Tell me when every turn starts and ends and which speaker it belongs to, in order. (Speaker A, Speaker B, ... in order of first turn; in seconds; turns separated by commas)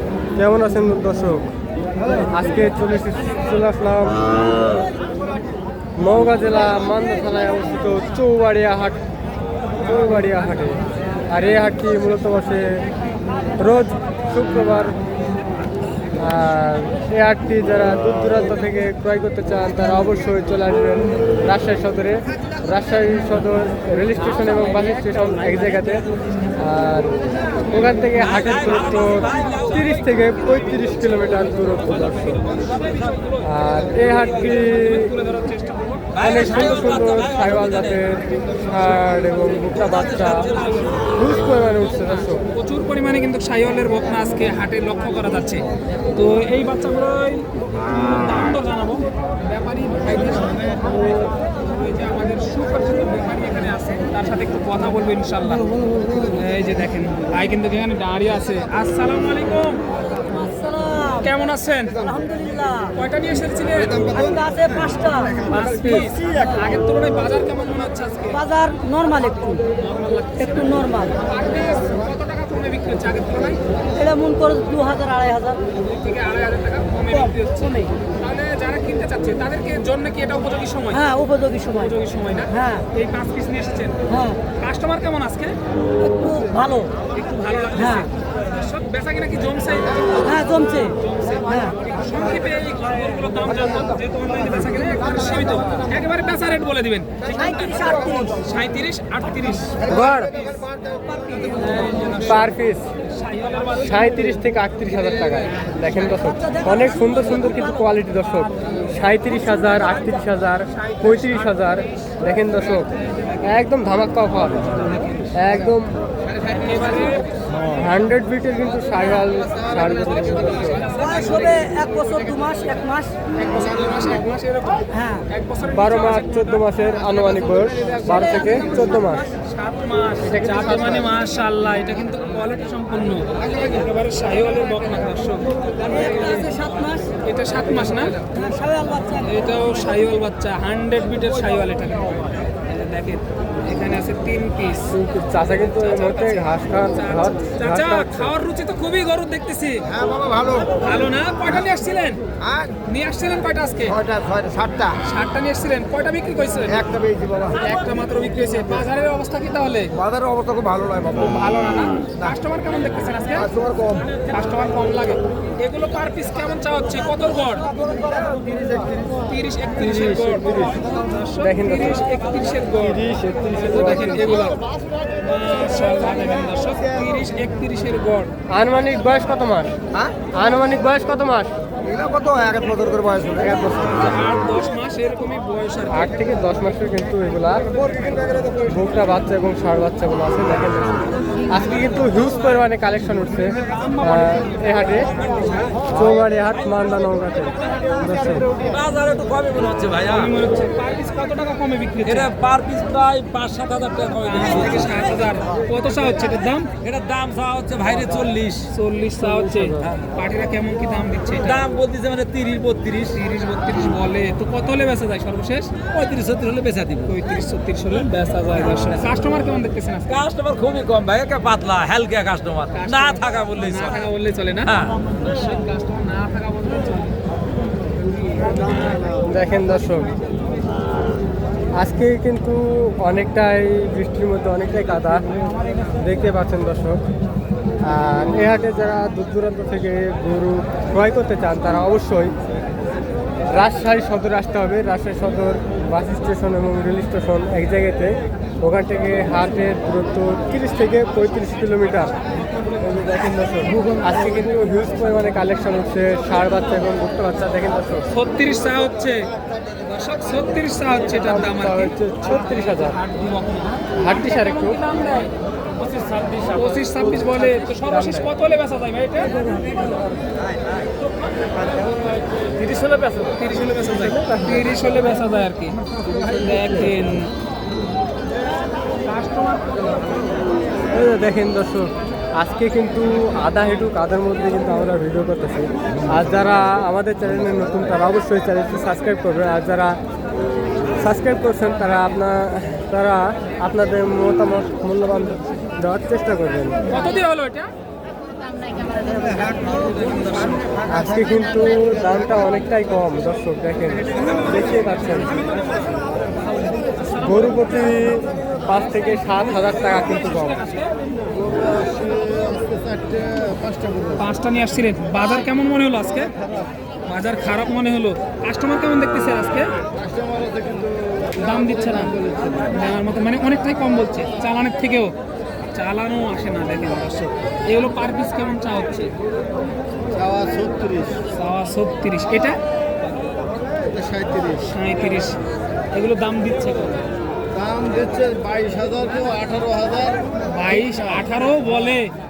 Speaker A: 0.3-1.5, Speaker A: 2.1-4.5, Speaker A: 6.0-9.0, Speaker A: 9.8-12.8, Speaker A: 13.6-14.9, Speaker A: 16.2-26.1, Speaker A: 26.6-27.1, Speaker A: 27.7-32.5, Speaker B: 28.2-30.2, Speaker C: 29.2-29.5, Speaker C: 32.1-33.4, Speaker A: 33.4-35.1, Speaker C: 34.2-36.9, Speaker A: 36.1-42.4, Speaker B: 36.2-38.0, Speaker C: 39.9-41.0, Speaker C: 42.0-59.8, Speaker D: 60.2-61.3, Speaker C: 61.2-62.0, Speaker D: 61.9-63.0, Speaker C: 62.9-64.1, Speaker D: 64.1-65.5, Speaker A: 65.5-66.1, Speaker C: 65.5-68.4, Speaker D: 66.3-66.6, Speaker D: 68.3-69.7, Speaker C: 69.8-73.6, Speaker D: 70.4-71.2, Speaker D: 73.9-75.6, Speaker C: 75.8-81.1, Speaker D: 80.9-82.9, Speaker C: 81.7-84.0, Speaker D: 84.1-84.4, Speaker C: 84.5-85.5, Speaker D: 86.0-87.0, Speaker C: 87.1-97.7, Speaker D: 87.8-88.1, Speaker D: 90.2-91.0, Speaker D: 91.5-91.7, Speaker D: 97.2-98.4, Speaker C: 98.3-99.9, Speaker A: 99.8-100.5, Speaker D: 101.1-101.8, Speaker C: 101.3-102.5, Speaker A: 102.2-102.9, Speaker C: 103.0-104.4, Speaker A: 103.8-112.9, Speaker D: 106.2-107.9, Speaker C: 108.4-108.7, Speaker C: 109.6-109.9, Speaker C: 110.8-111.7, Speaker A: 113.4-116.0, Speaker C: 114.9-115.4, Speaker C: 116.3-117.4, Speaker A: 117.7-120.9, Speaker C: 120.1-122.6, Speaker D: 120.9-123.2, Speaker C: 123.3-136.5, Speaker D: 124.9-125.2, Speaker A: 125.7-129.3, Speaker D: 128.0-128.8, Speaker A: 130.2-131.1, Speaker D: 135.8-137.1, Speaker C: 137.2-138.3, Speaker D: 138.3-139.5, Speaker C: 139.2-145.0, Speaker A: 144.9-148.3, Speaker C: 145.6-150.0, Speaker C: 150.7-152.2, Speaker C: 152.8-154.0, Speaker E: 154.1-154.6, Speaker C: 155.0-156.9, Speaker E: 156.9-157.2, Speaker C: 157.5-159.9, Speaker E: 160.2-160.6, Speaker C: 161.1-163.5, Speaker C: 164.2-167.7, Speaker C: 169.2-173.0, Speaker A: 169.8-170.8, Speaker A: 171.4-172.2, Speaker A: 172.8-174.3, Speaker C: 173.7-174.6, Speaker C: 175.2-178.3, Speaker A: 178.5-181.6, Speaker E: 182.1-183.3, Speaker A: 183.4-183.8, Speaker C: 183.7-186.2, Speaker A: 185.9-187.8, Speaker A: 188.5-195.1, Speaker A: 195.9-198.5, Speaker B: 198.6-200.3, Speaker C: 200.1-202.3, Speaker B: 202.1-205.2, Speaker C: 204.3-206.7, Speaker B: 206.8-208.7, Speaker C: 208.7-211.7, Speaker A: 209.2-209.9, Speaker B: 211.4-213.2, Speaker C: 213.1-215.8, Speaker B: 215.9-217.1, Speaker C: 217.1-220.2, Speaker B: 220.1-223.9, Speaker C: 222.7-227.2, Speaker B: 224.7-224.9, Speaker C: 228.1-229.1, Speaker A: 229.1-230.1, Speaker A: 231.7-235.2, Speaker A: 236.0-237.0, Speaker A: 237.8-242.3, Speaker A: 243.5-252.1, Speaker A: 252.8-258.1, Speaker C: 258.1-265.3, Speaker A: 261.1-263.0, Speaker A: 264.0-264.8, Speaker B: 266.0-266.4, Speaker C: 266.5-269.4, Speaker D: 272.7-273.0, Speaker C: 273.2-277.3, Speaker A: 274.2-274.6, Speaker C: 279.0-280.1, Speaker A: 280.9-290.0, Speaker A: 290.9-296.8, Speaker C: 296.9-297.7, Speaker C: 300.2-300.6, Speaker A: 300.8-305.4, Speaker C: 306.8-307.2, Speaker A: 307.1-310.6, Speaker C: 309.3-311.4, Speaker B: 311.8-312.6, Speaker C: 314.1-316.3, Speaker C: 317.0-319.8, Speaker C: 321.3-325.1, Speaker C: 325.7-329.1, Speaker C: 331.3-332.6, Speaker C: 334.5-335.4, Speaker C: 335.9-337.1, Speaker C: 340.4-342.1